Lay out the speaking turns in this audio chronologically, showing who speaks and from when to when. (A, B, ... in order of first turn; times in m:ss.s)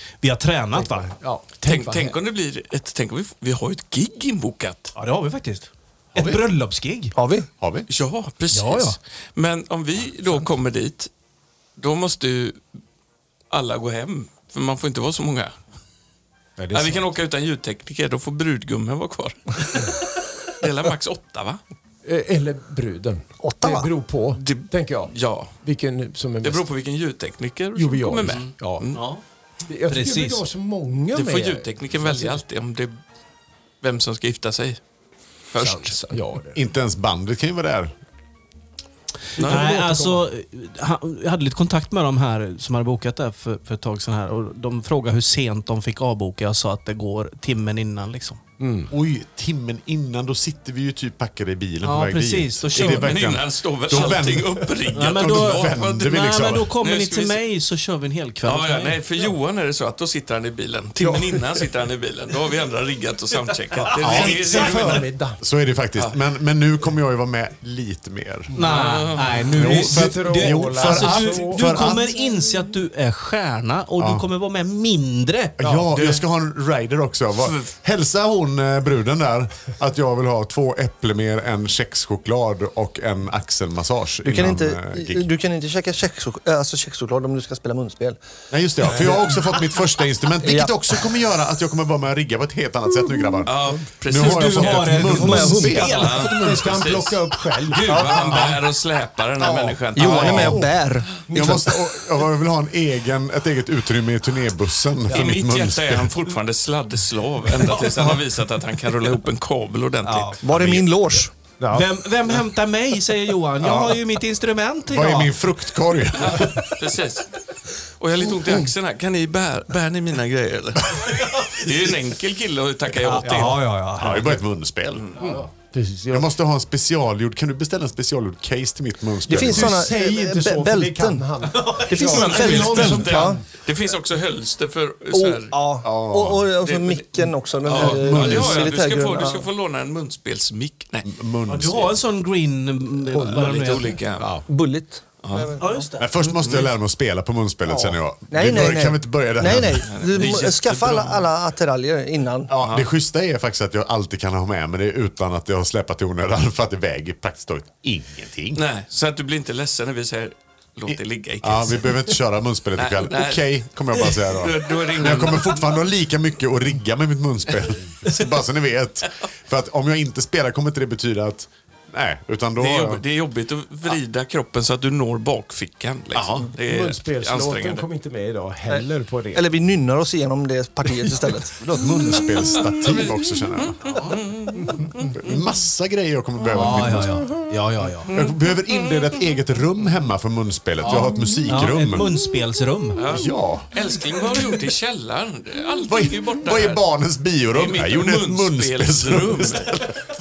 0:00.2-0:01.1 A
0:00.7-0:02.2 B
0:01.6-0:04.9 C
0:05.0-0:07.1 A
0:06.1-0:06.4 D
0:07.1-0:07.5 E
0:07.6-0:07.9 D
0:07.9-0:11.1 C
0:08.5-0:09.0 A
0:11.8-0:12.6 C
0:13.5-0:15.5 C
0:16.6-0:17.0 B
0:16.7-0:21.6 C
0:22.0-0:26.7 B
0:23.4-0:23.9 E
0:24.4-0:25.5 C
0:26.4-0:29.0 C
0:27.7-0:28.9 B
0:28.9-0:29.2 A
0:29.7-0:32.4 B
0:29.8-0:30.4 A
0:31.1-0:33.0 C
0:33.8-0:34.8 C
0:35.5-0:36.0 C
0:35.6-0:36.6 B
0:36.5-0:37.9 D
0:39.3-0:48.4 A
0:39.4-0:40.2 B
0:39.4-0:39.6 C
0:48.6-0:48.9 B
0:48.9-0:56.7 D
0:51.8-0:53.2 A
0:52.7-0:57.4 C
0:54.9-0:59.0 A
0:58.4-1:05.1 C
1:01.0-1:01.7 B
1:03.9-1:05.4 B
1:03.9-1:08.5 D
1:08.5-1:08.9 B
1:08.5-1:15.6 A
1:08.6-1:09.4 C
1:09.5-1:11.9 B
1:09.5-1:12.2 D
1:14.0-1:14.3 D
1:15.6-1:25.3 D
1:15.6-1:15.9 B
1:15.9-1:16.2 C
1:17.4-1:17.7 C
1:24.2-1:28.2 E
1:28.5-1:37.0 D
1:28.8-1:29.2 C
1:29.0-1:29.3 B
1:30.4-1:30.8 E
1:33.3-1:33.8 B
1:33.4-1:40.6 C
1:34.1-1:36.4 A
1:35.0-1:38.6 B
1:35.2-1:35.8 E
1:39.4-1:39.7 B
1:39.9-1:41.2 E
1:40.0-1:40.7 D
1:41.3-1:41.9 B
1:41.3-1:46.1 D
1:45.1-1:50.8 C
1:47.6-1:48.1 B
1:50.0-1:50.4 A
1:50.4-1:51.3 E
1:51.6-1:51.9 B
1:51.7-1:55.4 A
1:53.6-1:54.0 B
1:54.8-1:56.7 D
1:56.2-1:57.2 C
1:58.0-2:03.6 C
2:03.0-2:04.3 A
2:03.1-2:03.6 B
2:04.0-2:05.0 D
2:05.2-2:06.3 B
2:06.1-2:09.8 D
2:09.3-2:13.4 E
2:09.3-2:13.4 B
2:11.5-2:11.9 A
2:11.9-2:15.6 C
2:15.1-2:19.5 E
2:15.8-2:16.4 D
2:16.6-2:21.1 C
2:17.8-2:18.7 D
2:21.0-2:21.9 D
2:21.5-2:24.0 A
2:23.1-2:24.4 B
2:23.2-2:24.3 C
2:24.5-2:25.9 E
2:25.2-2:25.5 C
2:25.6-2:26.0 A
2:26.0-2:29.9 D
2:26.3-2:26.7 C
2:28.3-2:32.5 E
2:29.5-2:31.3 C
2:32.5-2:38.6 D
2:32.6-2:32.9 C
2:38.5-2:42.1 C
2:40.9-2:53.0 D
2:42.8-2:45.7 C
2:52.6-2:57.8 C
2:56.1-2:56.5 D
2:56.6-2:59.5 B
2:58.7-3:01.8 E
3:01.7-3:04.0 D
3:01.8-3:02.2 B
3:02.7-3:05.4 C
3:03.9-3:04.9 B
3:05.2-3:07.3 D
3:06.5-3:08.1 A
3:06.6-3:07.9 B
3:08.1-3:12.1 D
3:10.8-3:13.0 A
3:10.8-3:11.2 B
3:12.9-3:16.8 C
3:13.1-3:13.7 D
3:15.8-3:19.9 D
3:17.5-3:19.9 C